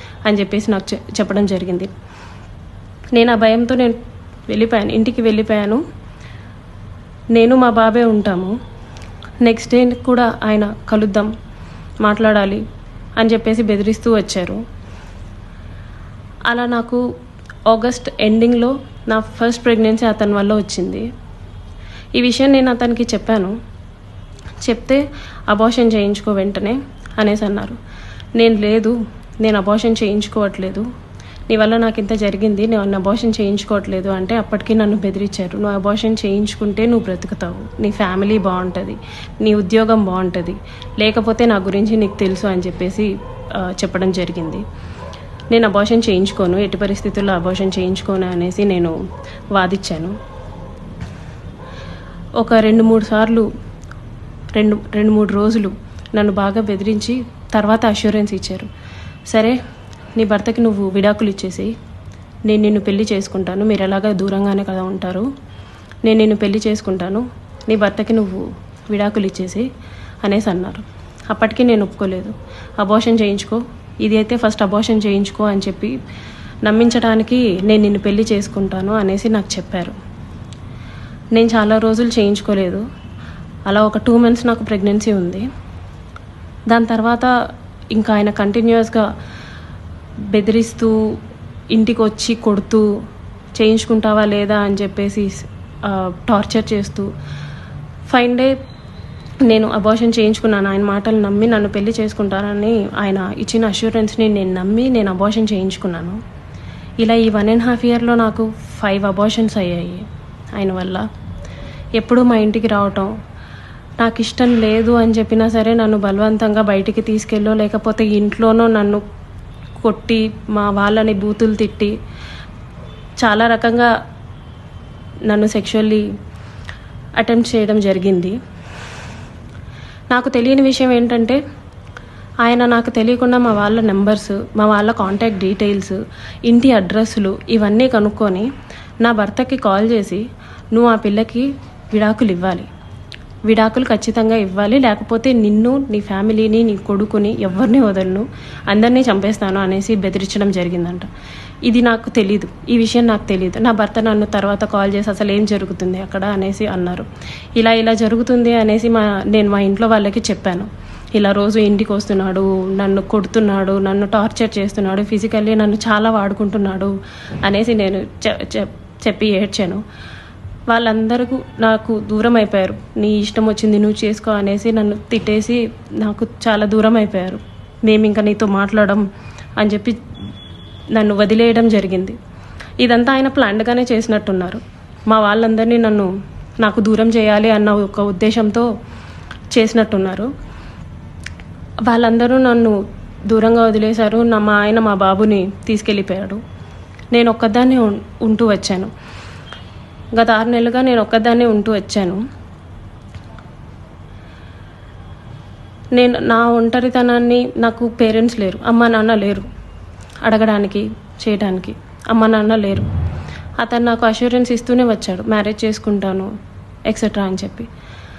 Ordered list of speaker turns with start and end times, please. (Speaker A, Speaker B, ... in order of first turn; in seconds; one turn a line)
Speaker A: 0.3-1.9
Speaker A: 3.1-4.0
Speaker A: 4.5-5.8
Speaker A: 7.3-8.5
Speaker A: 9.4-11.3
Speaker A: 12.0-12.6
Speaker A: 13.2-14.6
Speaker A: 16.5-17.0
Speaker A: 17.7-21.0
Speaker A: 22.2-23.5
Speaker A: 24.6-27.8
Speaker A: 28.4-30.8
Speaker A: 31.5-43.1
Speaker A: 43.6-44.6
Speaker A: 45.5-48.9
Speaker A: 49.5-50.1
Speaker A: 52.4-53.5
Speaker A: 54.5-58.7
Speaker A: 60.2-61.7
Speaker A: 62.5-65.3
Speaker A: 66.0-69.7
Speaker A: 70.2-75.9
Speaker A: 76.6-79.9
Speaker A: 81.3-82.8
Speaker A: 83.7-85.4
Speaker A: 86.7-87.3
Speaker A: 87.9-89.0
Speaker A: 90.3-90.9
Speaker A: 91.7-92.8
Speaker A: 93.6-97.1
Speaker A: 98.1-98.5
Speaker A: 99.5-106.2
Speaker A: 107.0-110.0
Speaker A: 110.5-111.0
Speaker A: 112.0-113.1
Speaker A: 114.0-119.0
Speaker A: 119.8-121.9
Speaker A: 123.2-123.9
Speaker A: 125.3-126.0
Speaker A: 127.2-128.3
Speaker A: 130.1-131.4
Speaker A: 132.4-138.5
Speaker A: 139.0-140.2
Speaker A: 140.7-142.7
Speaker A: 143.5-151.1
Speaker A: 151.7-157.1
Speaker A: 157.6-169.8
Speaker A: 170.7-179.0
Speaker A: 179.6-180.0
Speaker A: 180.9-182.2
Speaker A: 182.8-186.1
Speaker A: 186.6-188.7
Speaker A: 189.5-190.3
Speaker A: 191.9-192.8
Speaker A: 193.3-196.4
Speaker A: 197.1-198.9
Speaker A: 200.2-202.2
Speaker A: 205.9-209.4
Speaker A: 210.2-212.8
Speaker A: 213.6-216.3
Speaker A: 216.9-217.7